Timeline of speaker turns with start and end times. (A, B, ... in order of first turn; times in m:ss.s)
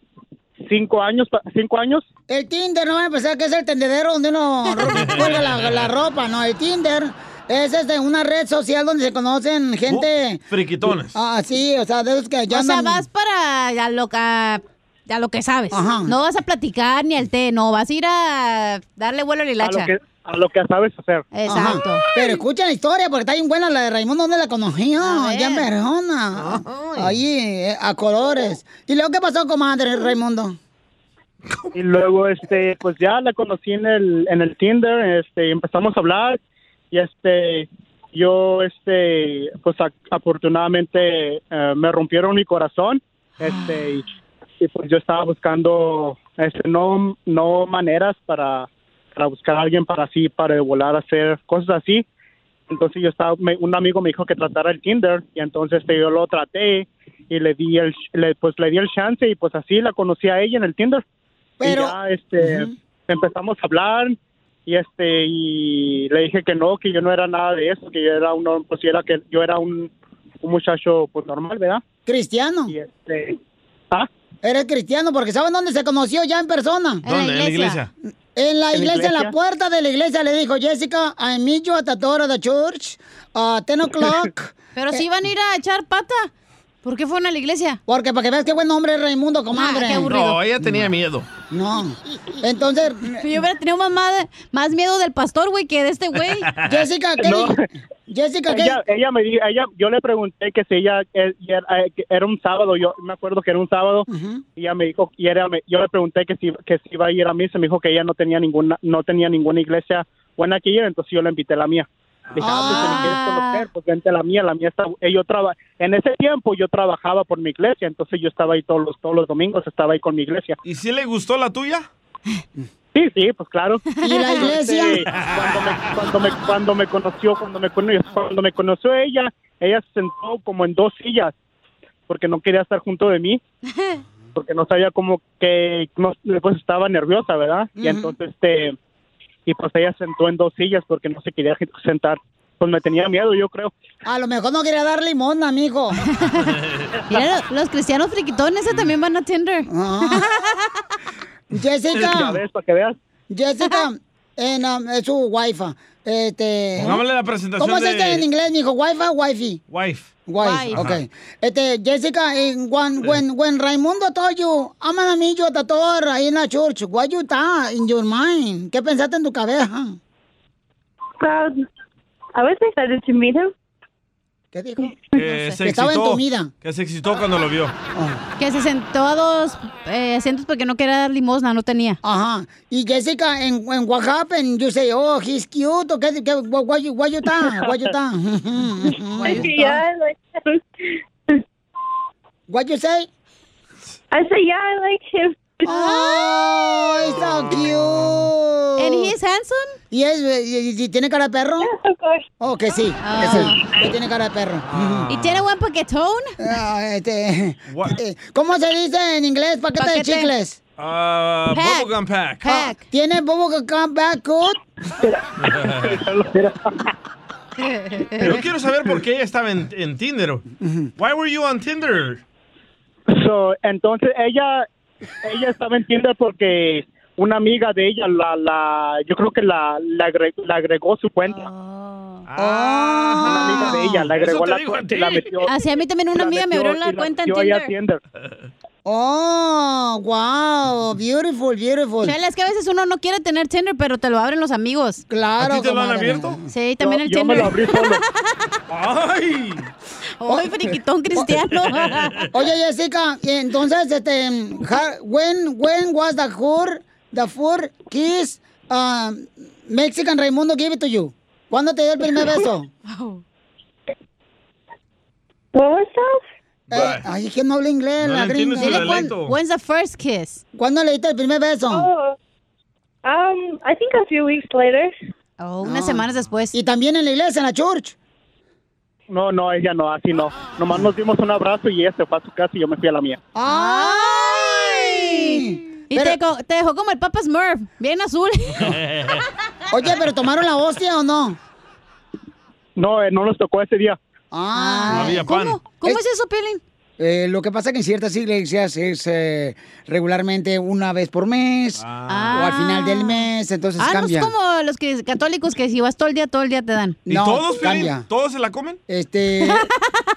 0:00.6-0:02.1 A
0:02.3-0:10.4 B
0:05.1-0:05.9 C
0:09.9-0:11.2 C
0:11.1-0:13.0 B
0:12.5-0:19.9 D
0:15.7-0:16.1 B
0:19.6-0:21.3 A
0:21.3-0:22.1 D
0:21.5-0:30.6 B
0:25.0-0:25.7 D
0:26.4-0:27.2 C
0:31.8-0:36.4 A
0:36.9-0:44.1 A
0:43.5-0:43.8 D
0:44.6-0:52.0 A
0:52.7-1:01.0 A
1:01.6-1:02.7 B
1:01.6-1:09.9 A
1:10.4-1:11.8 A
1:12.1-1:12.7 B
1:12.7-1:13.4 A
1:14.4-1:17.0 B
1:17.0-1:17.8 D
1:17.1-1:17.9 C
1:18.4-1:25.0 B
1:18.7-1:19.3 A
1:24.8-1:26.3 D
1:26.8-1:27.8 D
1:27.9-1:30.4 B
1:29.5-1:30.3 D
1:30.1-1:31.3 C
1:31.5-1:33.3 B
1:33.2-1:36.5 D
1:36.6-1:37.6 B
1:37.2-1:37.6 A
1:38.1-1:38.8 B
1:38.5-1:51.9 A
1:44.1-1:44.4 B
1:52.3-1:52.8 C
1:52.4-1:53.1 B
1:52.5-2:00.6 A
1:52.5-1:53.7 D
2:00.6-2:01.9 C
2:03.0-2:03.9 A
2:04.0-2:04.5 D
2:04.0-2:05.1 B
2:04.4-2:11.3 A
2:12.1-2:13.4 A
2:14.4-2:18.8 A
2:17.8-2:18.2 B
2:19.5-2:23.7 A
2:24.0-2:26.0 B
2:26.1-2:26.5 D
2:27.0-2:27.2 A
2:27.1-2:30.7 D
2:29.7-2:30.4 B
2:31.5-2:32.4 B
2:31.9-2:33.0 A
2:33.3-2:37.0 B
2:36.8-2:38.2 C
2:37.6-2:39.6 B
2:39.7-2:40.1 C
2:40.3-2:50.0 B
2:40.4-2:40.7 D
2:40.7-2:41.0 C
2:51.2-2:51.5 E
2:52.4-2:53.4 E
2:54.5-2:54.9 B
2:55.2-2:57.7 C
2:55.2-2:55.6 D
2:55.6-2:56.5 B
2:58.4-3:02.0 D
3:02.0-3:09.6 B
3:09.2-3:09.5 D
3:09.6-3:09.9 E
3:12.5-3:13.1 B
3:14.1-3:15.2 E
3:15.6-3:16.2 D
3:15.7-3:19.1 B
3:17.1-3:18.2 C
3:18.8-3:19.8 D
3:19.9-3:21.7 B
3:22.4-3:25.1 B
3:23.0-3:23.6 D
3:24.7-3:25.4 C
3:25.1-3:26.4 D
3:26.4-3:30.6 B
3:27.7-3:28.0 C
3:29.8-3:30.3 D
3:30.8-3:32.5 C
3:31.5-3:31.9 D
3:32.4-3:32.8 D
3:32.4-3:34.6 B
3:35.0-3:36.9 A
3:35.4-3:36.0 C
3:37.6-3:38.4 D
3:38.2-3:40.4 C
3:40.6-3:40.9 B
3:41.0-3:42.2 C
3:43.1-3:44.7 A
3:45.2-3:51.5 A
3:51.3-3:52.2 D
3:52.3-3:55.4 C
3:52.4-3:53.8 B
3:53.3-3:55.6 A
3:55.5-3:57.7 D
3:56.1-3:58.0 A
3:58.8-4:02.2 B
4:02.0-4:05.0 D
4:05.1-4:06.4 B
4:05.4-4:06.4 C
4:06.5-4:08.5 D
4:06.8-4:08.0 A
4:08.7-4:09.7 C
4:10.2-4:12.3 D
4:10.3-4:10.6 B
4:12.3-4:22.7 B
4:22.9-4:23.2 D
4:26.7-4:29.1 B
4:26.7-4:27.1 C
4:28.0-4:29.4 C
4:28.6-4:30.4 D
4:30.6-4:31.9 B
4:35.4-4:36.6 D
4:35.6-4:38.0 B
4:39.1-4:43.2 A
4:43.4-4:46.2 B
4:43.5-4:48.8 D
4:49.7-4:51.4 B
4:52.8-4:54.0 A
4:54.3-4:55.2 B
4:54.6-4:56.6 D
4:54.9-4:55.6 C
4:57.0-5:04.3 B
5:01.8-5:02.5 C
5:02.1-5:03.3 D
5:03.8-5:07.0 D
5:07.1-5:08.0 B
5:07.1-5:08.8 C
5:08.9-5:09.7 B
5:09.4-5:09.7 D